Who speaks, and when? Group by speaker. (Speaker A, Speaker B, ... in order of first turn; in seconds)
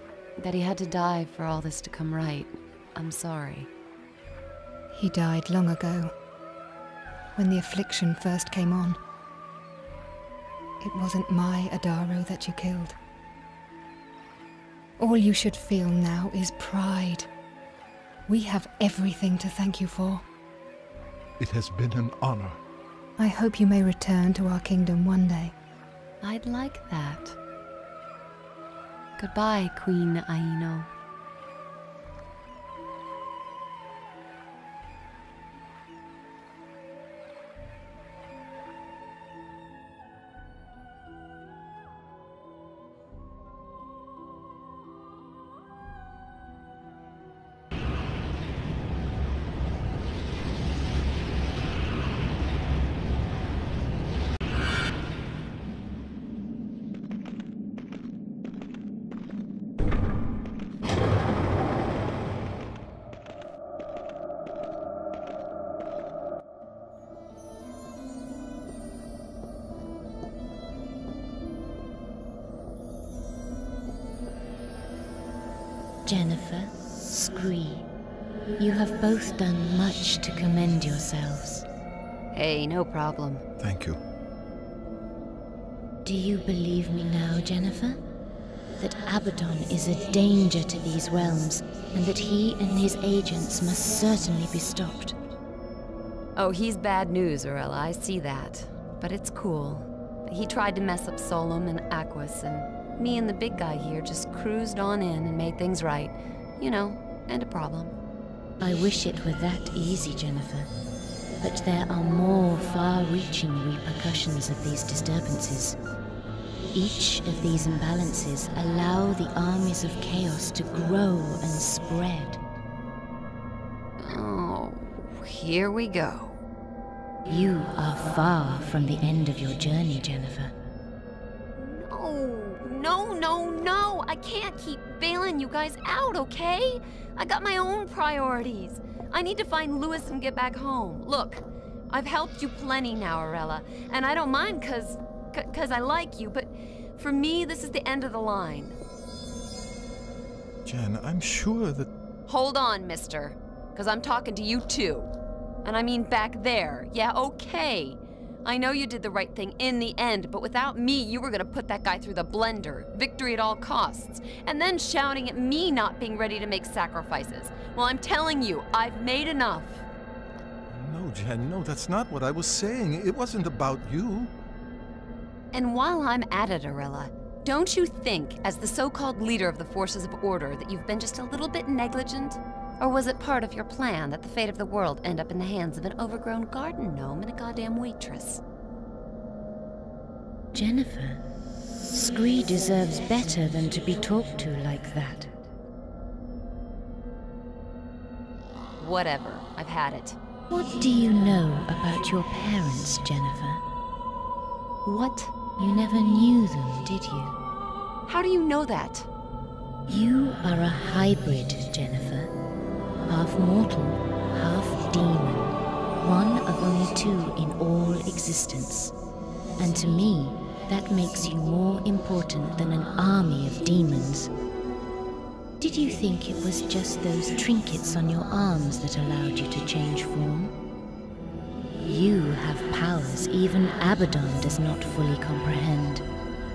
Speaker A: 0.4-3.7, 26.2-27.4, 29.2-30.9, 82.3-83.4, 96.3-107.9, 124.0-126.4, 131.6-148.8, 152.3-155.1, 155.6-169.8, 175.5-188.4, 198.8-200.2, 204.8-205.3, 208.1-209.1
Speaker B: 4.9-6.1, 7.3-9.0, 10.8-12.9, 15.0-17.3, 18.3-20.2, 23.2-25.5
Speaker C: 21.4-22.6, 83.6-84.0, 150.7-151.9, 170.7-174.3
Speaker D: 76.0-77.9, 78.6-81.7, 86.0-88.0, 88.8-95.2, 108.6-110.7, 111.4-115.8, 116.7-122.4, 127.3-130.5, 190.5-191.2, 191.9-195.3, 200.5-203.6, 205.6-207.4, 209.9-212.3, 213.1-218.9, 219.6-224.3, 225.6-230.6, 231.8-236.1